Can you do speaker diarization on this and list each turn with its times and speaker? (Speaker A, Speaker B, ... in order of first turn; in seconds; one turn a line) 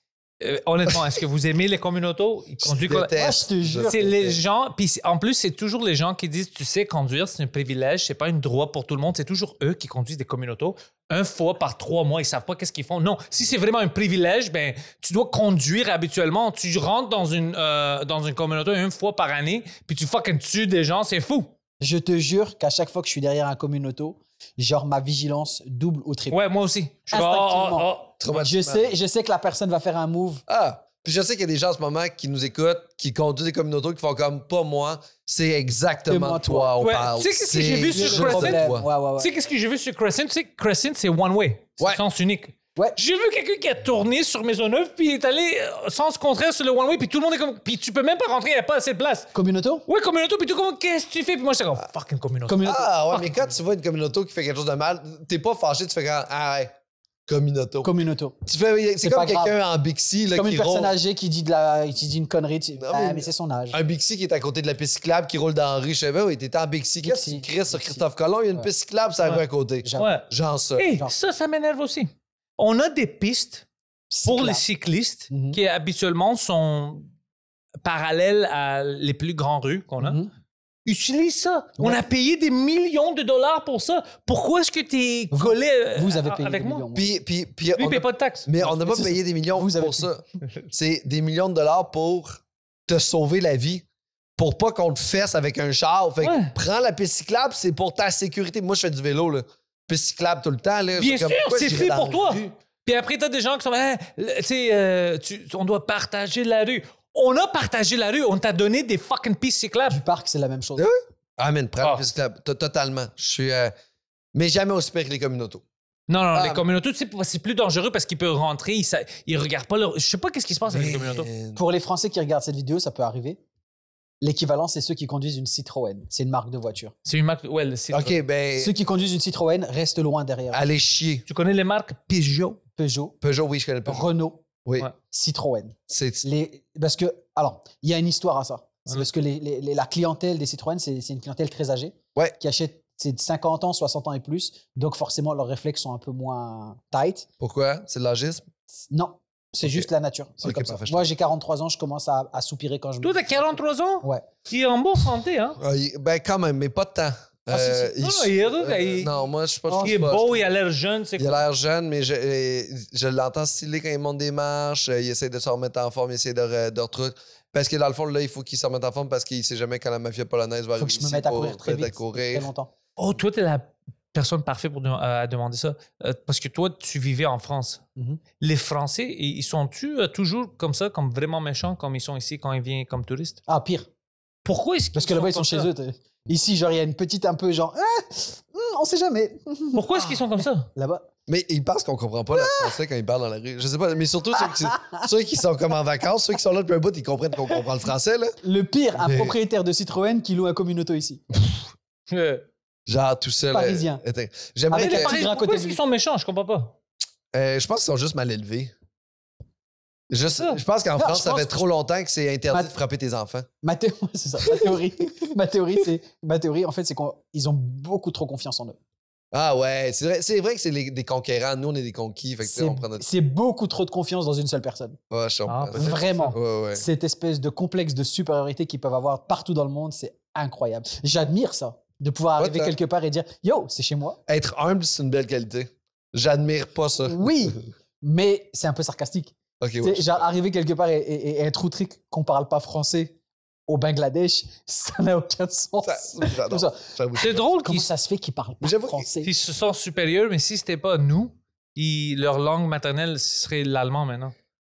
Speaker A: 0.4-3.1
Speaker B: 2.6-4.4
Speaker C: 3.1-4.1
Speaker A: 3.9-21.5
Speaker C: 21.8-26.4
Speaker A: 26.3-28.2
Speaker C: 27.1-30.4
Speaker B: 28.2-28.9
Speaker B: 30.5-38.9
Speaker C: 36.0-36.8
Speaker A: 36.8-38.6
Speaker C: 37.9-39.3
Speaker A: 39.2-49.3
Speaker C: 49.4-49.9
Speaker A: 49.9-53.4
Speaker C: 52.5-52.9
Speaker B: 52.6-56.7
Speaker B: 57.3-57.9
Speaker C: 57.8-58.4
Speaker B: 58.5-60.9
Speaker C: 59.0-59.6
Speaker C: 60.3-63.8
Speaker B: 62.8-70.9
Speaker C: 67.0-68.7
Speaker C: 69.8-70.1
Speaker A: 70.0-73.7
Speaker C: 74.1-74.6
Speaker A: 74.2-77.1
Speaker C: 75.3-75.6
Speaker A: 77.8-80.2
Speaker C: 80.0-80.3
Speaker A: 80.9-86.9
Speaker C: 81.8-82.0
Speaker C: 85.3-87.1
Speaker B: 87.0-93.8
Speaker A: 87.8-88.6
Speaker C: 88.6-90.1
Speaker B: 94.4-102.5
Speaker A: 96.2-96.5
Speaker A: 101.0-110.0
Speaker C: 109.9-110.8
Speaker B: 110.8-113.7
Speaker B: 114.3-115.6
Speaker A: 116.1-121.3
Speaker B: 116.3-116.6
Speaker B: 120.7-121.6
Speaker C: 121.6-123.4
Speaker C: 124.2-126.9
Speaker A: 127.0-128.2
Speaker B: 127.9-128.7
Speaker C: 128.6-130.6
Speaker B: 130.5-131.2
Speaker A: 131.3-132.6
Speaker C: 132.8-133.2
Speaker B: 133.2-134.1
Speaker C: 133.8-134.4
Speaker C: 135.1-147.3
Speaker B: 135.9-136.3
Speaker B: 147.4-148.4
Speaker C: 148.9-153.3
Speaker B: 149.6-149.9
Speaker B: 150.4-151.1
Speaker A: 153.0-155.6
Speaker B: 155.6-160.4
Speaker C: 157.5-157.9
Speaker A: 158.0-159.1
Speaker C: 159.7-160.0
Speaker A: 159.8-161.4
Speaker B: 161.2-172.5
Speaker C: 170.8-172.7
Speaker A: 173.0-177.8
Speaker A: 178.4-183.4
Speaker C: 183.5-183.9
Speaker A: 184.4-185.7
Speaker C: 184.9-191.1
Speaker A: 189.8-190.7
Speaker B: 191.3-198.4
Speaker C: 192.3-192.8
Speaker C: 194.4-195.1
Speaker C: 198.4-201.2
Speaker B: 199.0-199.3
Speaker A: 202.1-202.5
Speaker B: 202.9-205.2
Speaker C: 203.5-204.0
Speaker C: 204.7-205.8
Speaker A: 204.7-206.7
Speaker B: 207.3-208.7
Speaker B: 210.1-213.5
Speaker A: 210.3-210.6
Speaker C: 211.0-211.7
Speaker C: 213.6-218.8
Speaker B: 214.5-214.8
Speaker B: 219.3-223.1
Speaker C: 222.4-225.0
Speaker B: 225.1-226.8
Speaker A: 225.5-226.4
Speaker C: 225.8-234.2
Speaker B: 232.4-232.8
Speaker B: 234.3-237.3
Speaker C: 237.0-243.2
Speaker B: 239.6-240.2
Speaker C: 243.7-246.8
Speaker B: 245.8-247.4
Speaker A: 247.2-247.9
Speaker C: 247.6-249.3
Speaker B: 248.6-249.1
Speaker A: 249.2-254.3